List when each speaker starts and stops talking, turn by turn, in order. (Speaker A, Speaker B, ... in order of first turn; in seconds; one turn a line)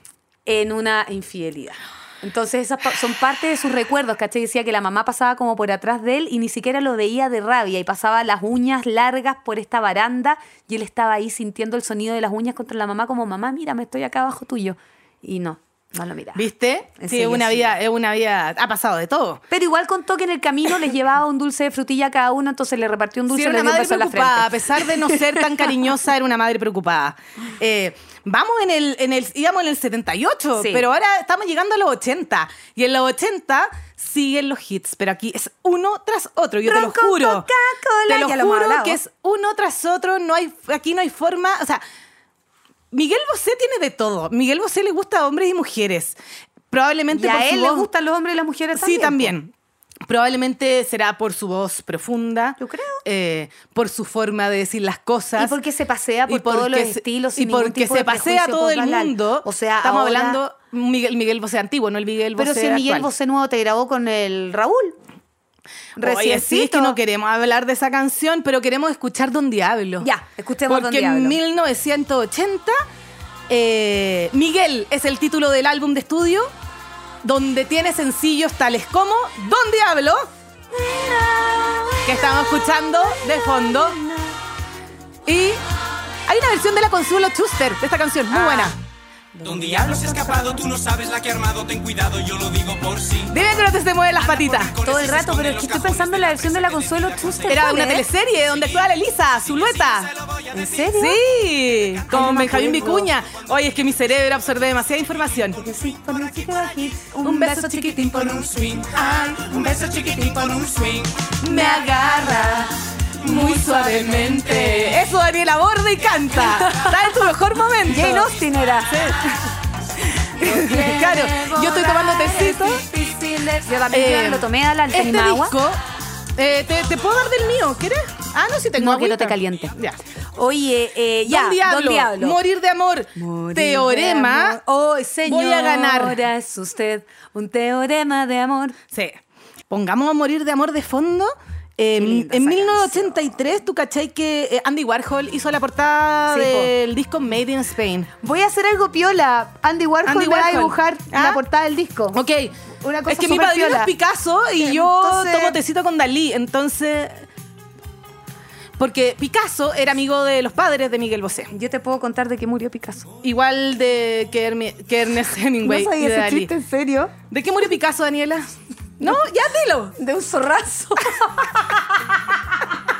Speaker A: 0.5-16.4
Speaker B: 16.4-19.4
Speaker A: 17.0-17.7
Speaker A: 19.5-25.8
Speaker B: 23.3-37.5
Speaker A: 30.6-30.9
Speaker A: 36.6-39.0
Speaker B: 38.1-41.8
Speaker B: 42.9-46.2
Speaker B: 46.7-47.9
Speaker A: 47.1-49.4
Speaker B: 48.8-49.5
Speaker B: 50.1-55.5
Speaker A: 52.6-53.0
Speaker A: 55.4-60.4
Speaker B: 56.3-63.1
Speaker A: 62.4-65.0
Speaker A: 66.0-67.0
Speaker B: 66.0-70.1
Speaker A: 70.0-71.4
Speaker B: 70.7-72.8
Speaker B: 73.5-76.5
Speaker B: 77.2-80.3
Speaker A: 80.7-84.4
Speaker B: 82.0-84.0
Speaker B: 85.3-85.6
Speaker B: 86.3-88.8
Speaker A: 88.3-88.7
Speaker A: 89.3-90.8
Speaker C: 90.9-93.1
Speaker B: 93.1-94.9
Speaker A: 94.8-98.0
Speaker B: 97.5-100.2
Speaker A: 100.5-101.2
Speaker B: 101.0-105.6
Speaker A: 102.1-103.1
Speaker A: 105.6-108.9
Speaker B: 107.2-118.3
Speaker A: 111.5-112.5
Speaker A: 116.4-117.0
Speaker A: 117.9-119.0
Speaker B: 118.9-119.4
Speaker B: 120.0-122.8
Speaker A: 120.4-125.6
Speaker B: 123.9-125.8
Speaker B: 126.4-130.0
Speaker A: 128.8-129.8
Speaker A: 130.3-132.4
Speaker B: 131.2-134.6
Speaker A: 133.2-138.8
Speaker B: 135.2-136.2
Speaker B: 138.9-139.2
Speaker B: 139.7-148.1
Speaker A: 142.0-143.3
Speaker A: 146.3-146.7
Speaker A: 148.2-152.2
Speaker B: 150.1-151.4
Speaker B: 152.1-152.5
Speaker A: 152.8-153.9
Speaker B: 153.1-157.3
Speaker A: 154.6-155.6
Speaker B: 158.8-161.5
Speaker A: 161.5-163.1
Speaker B: 163.2-166.5
Speaker A: 165.6-167.1
Speaker B: 167.3-169.9
Speaker A: 170.0-172.4